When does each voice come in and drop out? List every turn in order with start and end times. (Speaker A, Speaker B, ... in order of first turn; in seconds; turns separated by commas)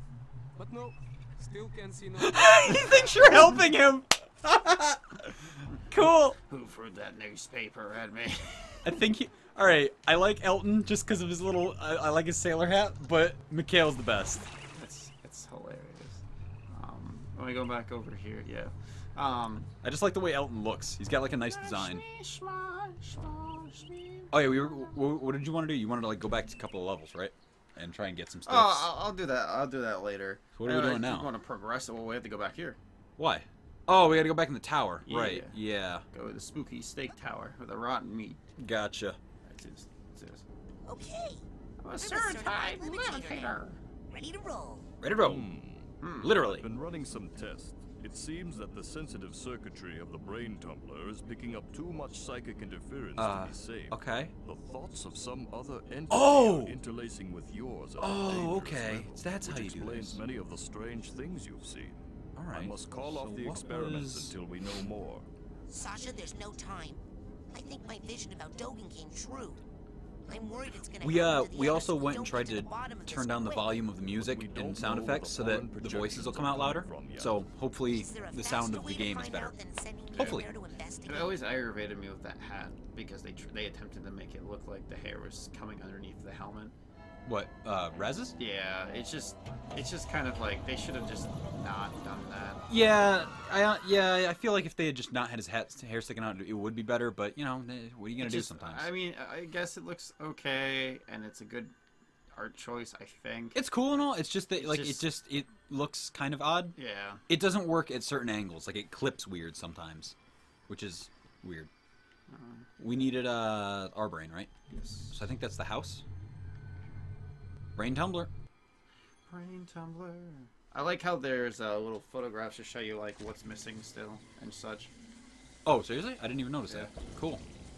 Speaker A: 0.6-3.4, Speaker B: 2.2-6.4, Speaker C: 6.4-9.0, Speaker B: 8.8-14.5, Speaker C: 14.7-19.7, Speaker B: 19.8-22.0, Speaker C: 21.5-25.1, Speaker B: 24.3-28.9, Speaker C: 28.5-32.8, Speaker B: 30.6-31.3, Speaker B: 33.2-36.0, Speaker C: 35.0-35.6, Speaker C: 36.1-38.4, Speaker B: 38.6-39.2, Speaker C: 39.5-40.4, Speaker D: 40.9-41.5, Speaker C: 41.8-43.8, Speaker D: 42.0-44.9, Speaker B: 45.0-45.5, Speaker E: 45.2-62.0, Speaker C: 46.0-46.4, Speaker B: 46.2-46.7, Speaker B: 53.2-54.3, Speaker B: 56.1-56.8, Speaker B: 58.0-60.2, Speaker B: 62.4-64.4, Speaker E: 62.5-65.3, Speaker D: 65.7-69.6, Speaker D: 70.3-73.9, Speaker B: 71.0-79.6, Speaker E: 74.1-77.5, Speaker D: 77.9-81.4, Speaker B: 80.1-80.5, Speaker C: 80.2-80.5, Speaker C: 81.0-86.8, Speaker B: 87.3-88.4, Speaker C: 88.4-92.7, Speaker B: 92.7-98.9, Speaker C: 98.2-101.7, Speaker C: 102.3-103.6, Speaker B: 103.5-106.8, Speaker C: 104.5-105.0, Speaker C: 106.7-107.2, Speaker B: 107.3-110.2, Speaker B: 110.7-111.7, Speaker C: 112.3-112.7, Speaker B: 112.8-114.5, Speaker C: 114.7-115.2, Speaker B: 115.1-116.0, Speaker B: 117.8-118.3, Speaker C: 119.3-124.9, Speaker B: 125.7-127.4, Speaker C: 126.7-127.0